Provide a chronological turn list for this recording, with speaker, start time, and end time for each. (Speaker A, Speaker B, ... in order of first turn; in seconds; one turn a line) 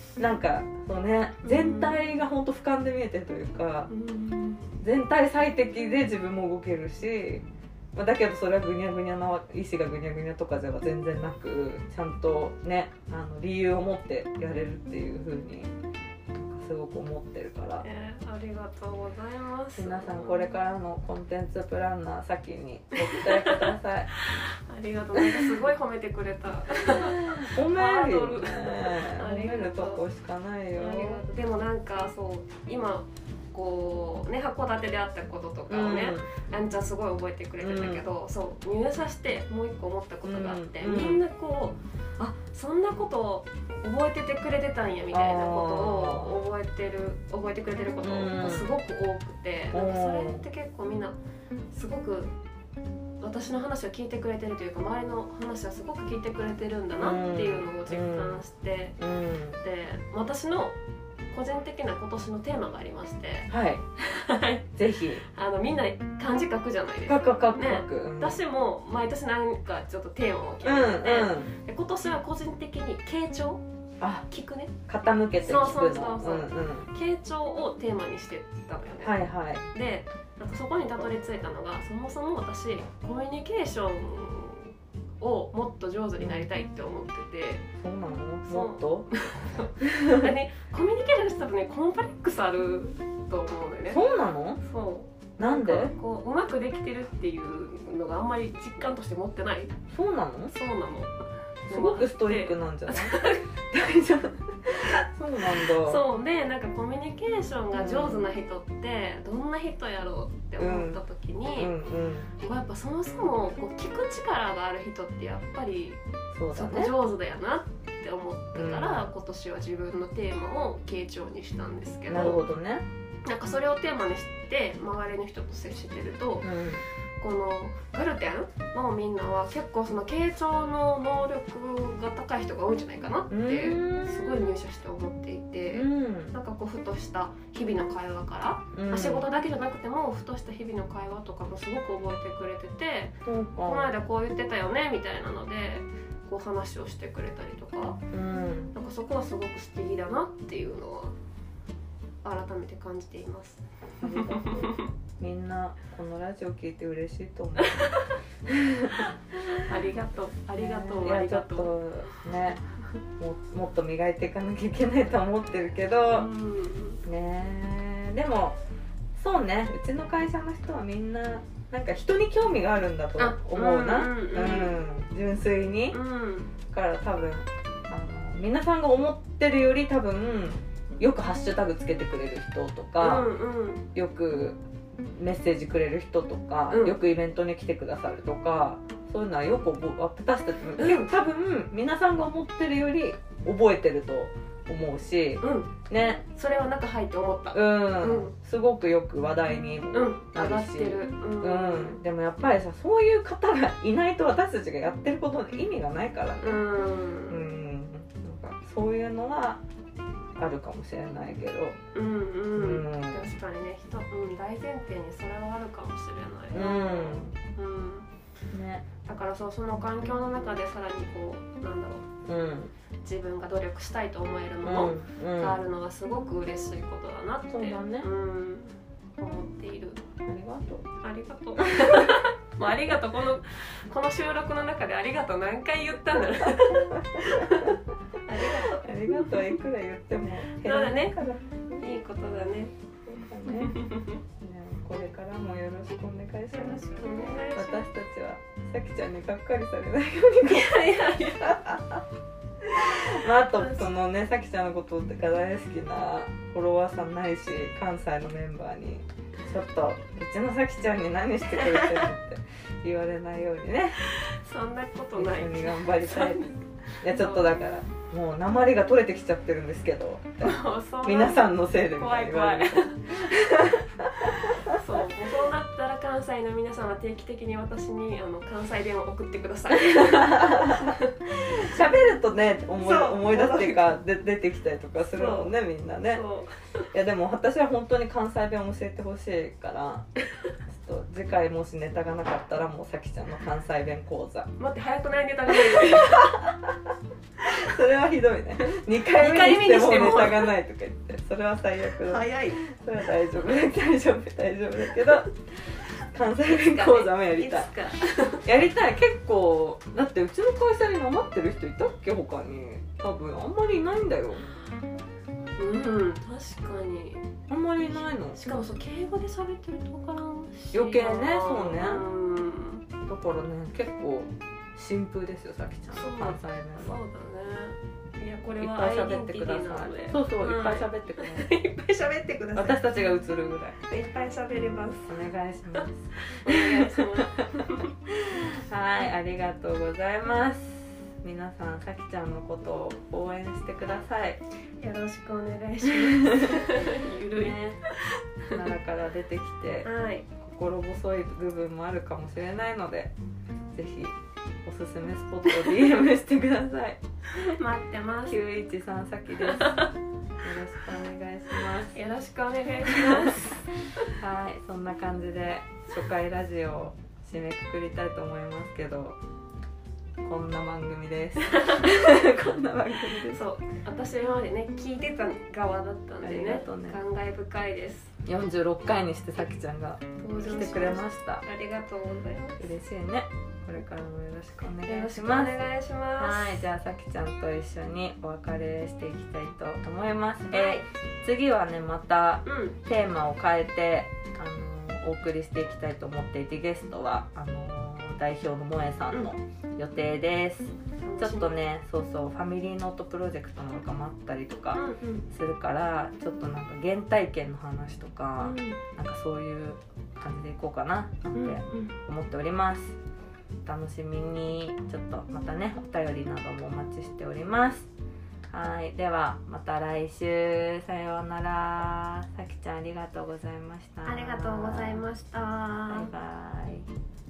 Speaker A: 0.2-3.9
Speaker B: 1.4-2.0
Speaker B: 3.9-4.7
Speaker A: 4.8-15.7
Speaker A: 16.3-17.9
Speaker B: 17.8-20.5
Speaker A: 19.8-24.1
Speaker B: 23.1-23.7
Speaker B: 24.3-30.0
Speaker A: 27.0-31.2
Speaker B: 30.8-51.1
Speaker A: 35.7-36.3
Speaker A: 37.6-38.0
Speaker A: 40.2-41.2
Speaker A: 45.1-46.4
Speaker A: 48.0-48.7
Speaker A: 49.7-50.4
Speaker B: 51.7-52.3
Speaker B: 53.2-59.0
Speaker A: 57.0-58.4
Speaker A: 59.0-59.6
Speaker B: 59.6-60.8
Speaker B: 61.3-64.7
Speaker A: 63.5-63.8
Speaker A: 64.8-65.2
Speaker B: 65.2-73.6
Speaker A: 67.1-68.4
Speaker A: 70.6-71.5
Speaker B: 74.3-74.7
Speaker A: 74.9-76.9
Speaker B: 75.4-79.2
Speaker A: 79.0-79.7
Speaker B: 79.7-87.7
Speaker A: 86.2-86.5
Speaker A: 87.8-89.1
Speaker B: 88.5-94.0
Speaker A: 89.8-90.3
Speaker A: 93.9-94.6
Speaker B: 94.6-99.7
Speaker A: 95.4-95.9
Speaker A: 99.9-100.5
Speaker B: 100.5-101.1
Speaker B: 101.7-103.5
Speaker A: 101.7-106.0
Speaker B: 105.6-111.7
Speaker A: 107.7-108.3
Speaker A: 110.6-111.0
Speaker A: 111.6-112.3
Speaker B: 112.4-116.0
Speaker A: 116.3-117.0
Speaker B: 116.5-122.5
Speaker A: 118.5-119.1
Speaker A: 122.1-122.8
Speaker B: 123.2-126.5
Speaker A: 126.4-126.8
Speaker B: 127.2-143.2
Speaker A: 133.3-134.6
Speaker A: 135.7-136.3
Speaker A: 138.7-139.2
Speaker A: 143.2-143.9
Speaker B: 143.7-148.0
Speaker A: 148.1-148.7
Speaker B: 148.7-151.1
Speaker B: 152.2-154.9
Speaker A: 154.0-157.8
Speaker B: 157.6-158.1
Speaker A: 158.5-159.7
Speaker B: 159.6-161.7
Speaker A: 160.6-162.6
Speaker A: 163.2-166.3
Speaker B: 166.1-167.0
Speaker A: 167.0-168.6
Speaker A: 169.2-176.0
Speaker B: 173.2-174.7
Speaker B: 175.9-176.5
Speaker A: 176.7-183.3
Speaker B: 183.0-183.9
Speaker A: 183.9-184.6
Speaker A: 185.1-196.2
Speaker B: 186.7-187.0
Speaker B: 190.8-191.1
Speaker B: 195.4-195.7
Speaker B: 196.3-198.3
Speaker A: 197.5-206.6
Speaker B: 199.9-202.0
Speaker B: 206.4-207.5
Speaker A: 207.3-209.6
Speaker A: 210.4-211.8
Speaker B: 211.9-218.1
Speaker A: 212.6-213.3
Speaker A: 216.5-217.3
Speaker A: 218.5-218.9
Speaker B: 219.1-222.1
Speaker A: 222.2-222.7
Speaker B: 223.0-230.0
Speaker A: 224.6-225.6
Speaker A: 227.5-228.1
Speaker A: 230.2-230.9
Speaker B: 231.0-239.5
Speaker A: 231.7-232.2
Speaker A: 237.2-237.7
Speaker A: 238.6-241.9
Speaker B: 240.6-241.2
Speaker B: 241.8-244.2
Speaker A: 243.1-243.8
Speaker A: 244.4-246.8
Speaker B: 246.6-247.8
Speaker A: 247.5-252.0
Speaker B: 250.4-251.6
Speaker A: 252.7-264.1
Speaker B: 253.6-253.9
Speaker B: 261.6-262.1
Speaker B: 264.1-267.4
Speaker A: 265.1-266.4
Speaker A: 267.0-272.9
Speaker B: 270.4-273.9
Speaker A: 273.6-274.8
Speaker B: 274.6-281.2
Speaker A: 279.8-286.2
Speaker B: 282.8-284.0
Speaker B: 285.0-285.5
Speaker B: 286.1-286.9
Speaker A: 286.9-290.1
Speaker A: 290.7-294.5
Speaker B: 294.6-296.4
Speaker A: 295.5-296.8
Speaker A: 297.4-307.7
Speaker B: 299.1-300.5
Speaker B: 302.0-302.6
Speaker B: 306.5-308.5
Speaker A: 308.4-314.5
Speaker B: 315.6-317.3
Speaker A: 317.5-318.4
Speaker B: 317.9-322.9
Speaker A: 320.7-322.0
Speaker A: 323.1-327.0
Speaker B: 325.9-333.1
Speaker A: 328.6-331.5
Speaker A: 332.6-333.8
Speaker B: 333.9-335.2
Speaker A: 335.1-344.4
Speaker B: 335.8-337.9
Speaker B: 344.8-348.6
Speaker A: 345.9-346.8
Speaker A: 347.4-347.8
Speaker A: 348.5-349.9
Speaker B: 349.8-350.3
Speaker A: 350.4-353.1
Speaker A: 353.7-357.6
Speaker B: 357.3-358.4
Speaker A: 358.3-359.9
Speaker B: 359.4-359.9
Speaker A: 360.4-362.0
Speaker B: 361.9-364.1
Speaker A: 362.9-363.4
Speaker A: 364.2-369.2
Speaker A: 370.2-373.4
Speaker B: 371.4-371.9
Speaker B: 373.3-378.1
Speaker A: 376.2-377.0
Speaker A: 378.2-381.4
Speaker B: 380.2-382.7
Speaker A: 382.6-385.6
Speaker B: 384.9-386.6
Speaker A: 386.2-413.0
Speaker B: 390.5-390.9
Speaker B: 392.4-392.8
Speaker B: 401.0-401.5
Speaker B: 404.7-405.2
Speaker B: 408.4-408.8
Speaker B: 411.3-411.9
Speaker A: 413.6-417.9
Speaker A: 418.5-425.1
Speaker B: 424.1-426.1
Speaker A: 425.9-426.9